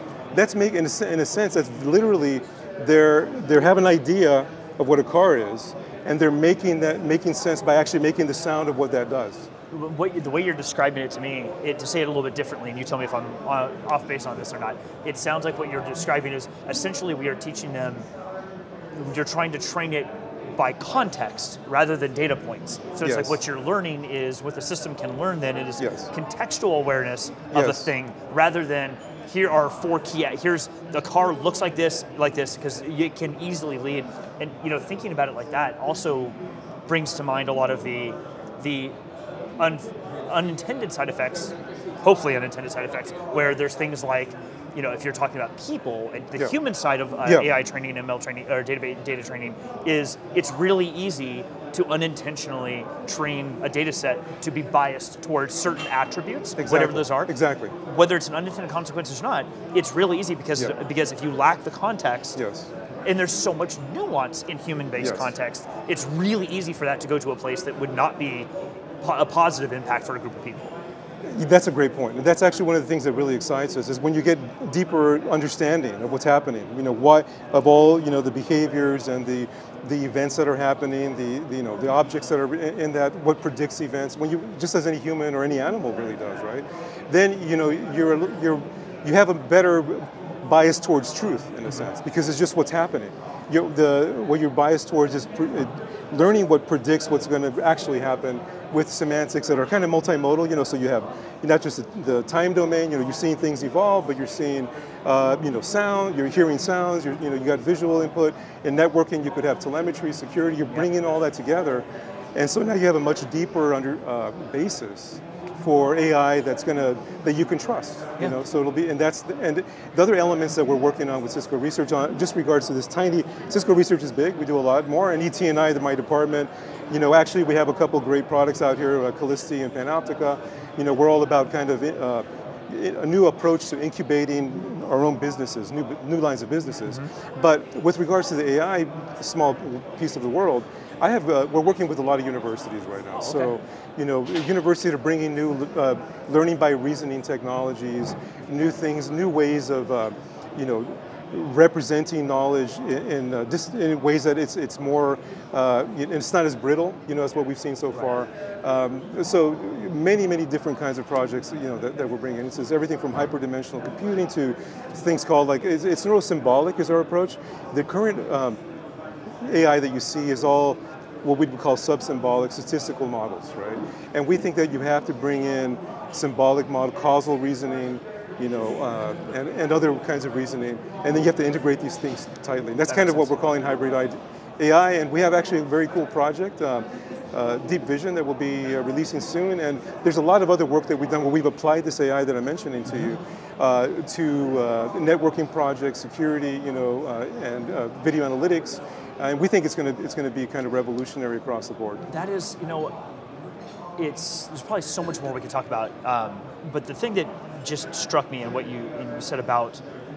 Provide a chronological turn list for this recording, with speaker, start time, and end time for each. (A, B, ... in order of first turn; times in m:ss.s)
0:00.3-0:09.5 A
0:09.7-0:18.0 B
0:19.0-0:36.4 B
0:23.0-0:23.4 A
0:25.8-0:26.1 A
0:27.5-0:27.9 A
0:36.9-0:38.9 B
0:39.6-1:02.4 B
0:47.2-0:47.5 A
0:56.6-0:57.7 A
1:02.4-1:02.7 A
1:03.0-1:08.5 B
1:05.0-1:05.3 A
1:09.0-1:10.7 B
1:11.3-2:48.6 A
2:23.1-2:23.5 B
2:49.4-3:22.0 A
3:02.8-3:03.4 B
3:22.1-3:22.9 B
3:24.0-3:29.8 B